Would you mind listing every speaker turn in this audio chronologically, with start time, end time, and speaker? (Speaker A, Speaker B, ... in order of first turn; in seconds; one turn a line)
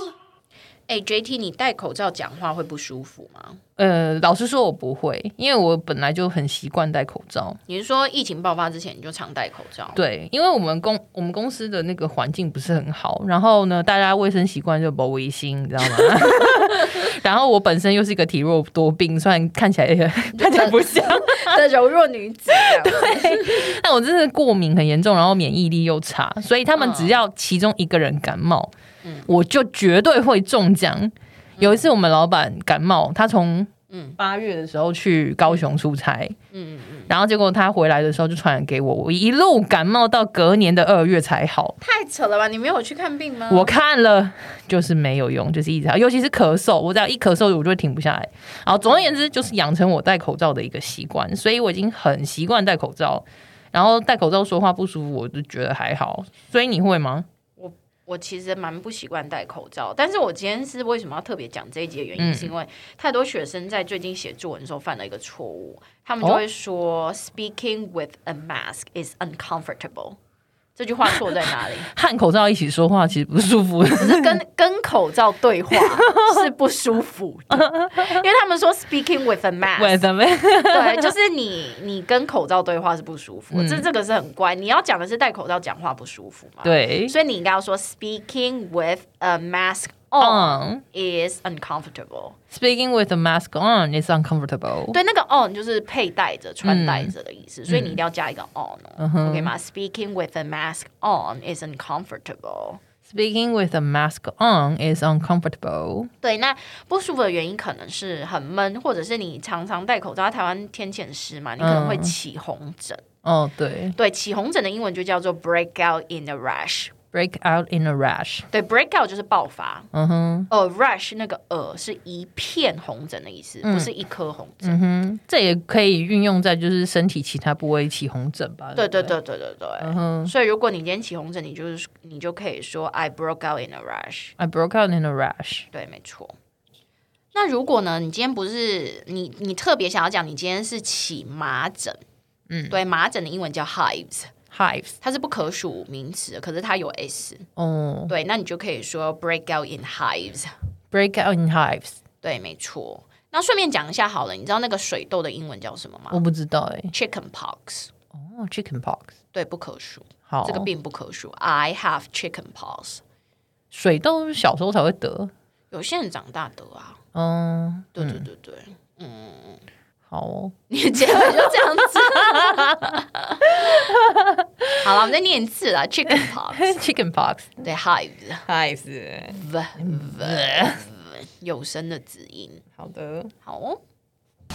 Speaker A: 0.9-3.6
Speaker B: 3.8-7.6
Speaker A: 7.7-10.0
Speaker B: 9.9-21.6
Speaker A: 20.4-23.7
Speaker B: 22.6-28.7
Speaker A: 26.8-27.2
Speaker A: 29.0-29.3
Speaker B: 29.3-36.4
Speaker A: 31.6-31.9
Speaker A: 33.9-34.2
Speaker A: 36.5-37.1
Speaker B: 37.1-41.8
Speaker A: 41.8-43.7
Speaker B: 43.5-57.3
Speaker A: 57.6-70.2
Speaker B: 62.2-62.5
Speaker A: 70.8-71.9
Speaker B: 71.8-74.4
Speaker A: 73.9-80.0
Speaker B: 75.7-76.5
Speaker B: 77.5-78.2
Speaker B: 79.8-81.1
Speaker A: 80.7-92.4
Speaker B: 83.5-83.9
Speaker B: 86.6-87.2
Speaker B: 90.2-90.8
Speaker B: 92.5-95.0
Speaker A: 94.9-102.8
Speaker B: 96.6-97.1
Speaker B: 97.7-98.0
Speaker B: 99.0-99.5
Speaker B: 103.0-106.1
Speaker A: 106.2-113.0
Speaker B: 111.6-112.2
Speaker B: 113.2-114.0
Speaker A: 114.0-117.0
Speaker B: 117.1-118.5
Speaker A: 118.5-119.9
Speaker B: 119.9-120.5
Speaker A: 120.5-124.8
Speaker B: 123.6-123.9
Speaker B: 124.6-129.2
Speaker A: 128.8-134.3
Speaker B: 129.8-130.3
Speaker B: 134.4-135.7
Speaker A: 135.7-136.3
Speaker A: 137.3-142.0
Speaker B: 142.5-142.8
Speaker A: 142.7-144.3
Speaker B: 144.5-144.9
Speaker A: 145.0-147.5
Speaker B: 147.6-148.1
Speaker A: 148.1-150.5
Speaker B: 150.9-152.0
Speaker A: 152.2-156.2
Speaker B: 156.1-156.9
Speaker A: 156.9-157.9
Speaker B: 158.1-159.1
Speaker A: 159.3-163.0
Speaker B: 160.3-160.7
Speaker B: 163.7-165.3
Speaker A: 165.7-167.0
Speaker B: 167.1-168.2
Speaker A: 167.9-169.7
Speaker B: 170.1-170.5
Speaker A: 170.7-173.8
Speaker B: 172.1-172.8
Speaker B: 173.5-174.8
Speaker A: 174.8-176.8
Speaker B: 176.2-177.6
Speaker A: 177.6-178.4
Speaker B: 178.5-180.8
Speaker A: 179.3-182.6
Speaker B: 182.8-183.3
Speaker A: 183.4-183.8